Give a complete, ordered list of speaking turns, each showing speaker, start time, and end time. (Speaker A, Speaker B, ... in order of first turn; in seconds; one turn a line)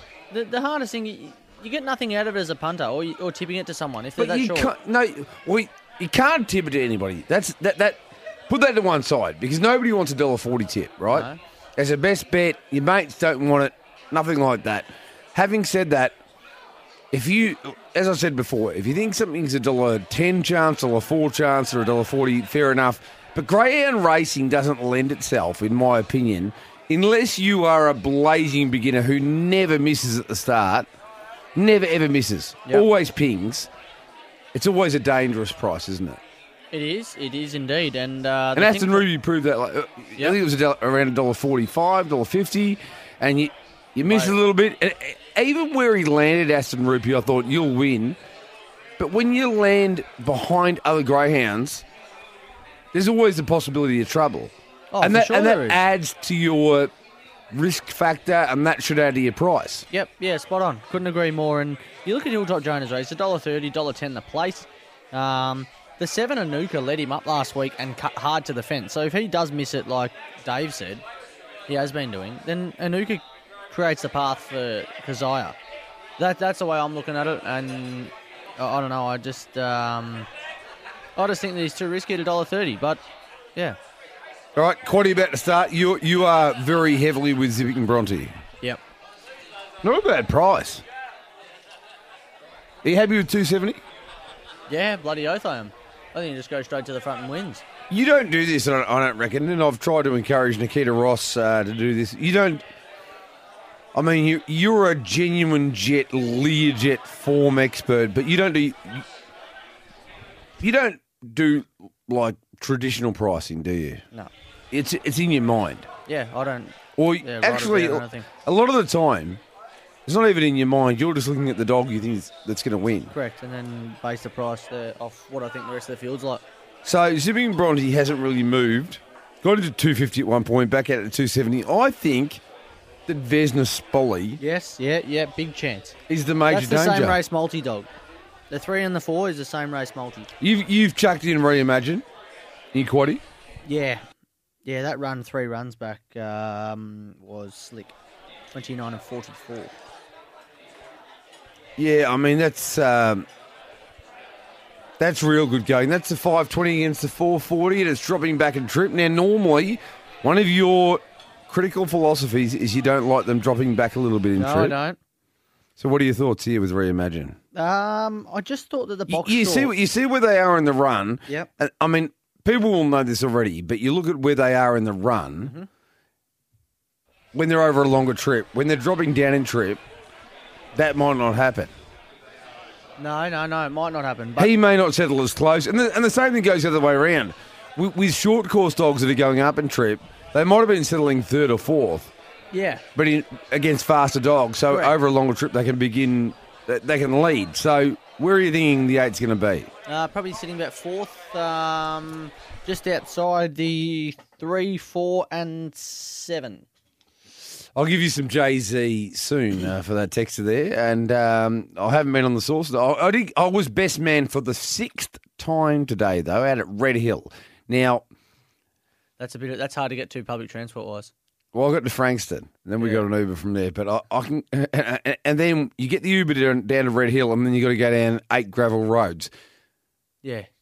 Speaker A: 0.3-4.7
Speaker B: 4.2-16.1
Speaker A: 11.1-11.4
Speaker B: 17.1-30.9
Speaker B: 31.5-33.7
Speaker B: 34.5-36.2
Speaker A: 36.7-39.1
Speaker B: 38.5-48.2
Speaker A: 44.1-44.3
Speaker B: 49.0-51.8
Speaker B: 52.9-56.9
Speaker A: 54.9-55.8
Speaker B: 57.5-59.9
Speaker A: 59.9-71.0
Speaker A: 71.7-75.5
Speaker A: 76.2-80.3
Speaker A: 81.2-83.0
Speaker B: 84.5-88.4
Speaker B: 89.8-90.8
Speaker B: 92.8-93.8
Speaker A: 94.7-97.6
Speaker B: 97.9-102.6
Speaker B: 103.9-109.1
Speaker B: 110.6-114.0
Speaker B: 114.7-115.9
Speaker A: 116.1-118.3
Speaker B: 117.0-119.4
Speaker B: 120.0-123.1
Speaker A: 123.1-126.4
Speaker B: 126.8-132.4
Speaker B: 133.1-134.4
Speaker A: 134.4-136.0
Speaker B: 136.1-137.2
Speaker A: 136.5-137.9
Speaker A: 138.5-140.3
Speaker B: 140.4-142.0
Speaker B: 142.7-143.2
Speaker A: 143.7-144.0
Speaker A: 144.7-147.9
Speaker A: 148.5-149.7
Speaker B: 151.8-153.2
Speaker B: 155.0-164.8
Speaker A: 164.3-165.0
Speaker B: 165.8-167.4
Speaker A: 167.5-169.7
Speaker B: 169.1-175.5
Speaker A: 175.4-175.7
Speaker B: 177.3-179.8
Speaker B: 180.7-181.7
Speaker A: 183.0-184.5
Speaker B: 184.4-192.1
Speaker A: 192.5-192.8
Speaker B: 192.9-199.7
Speaker A: 194.7-194.9
Speaker A: 199.9-206.7
Speaker B: 207.7-218.0
Speaker A: 219.2-221.1
Speaker B: 221.5-229.3
Speaker A: 230.2-230.5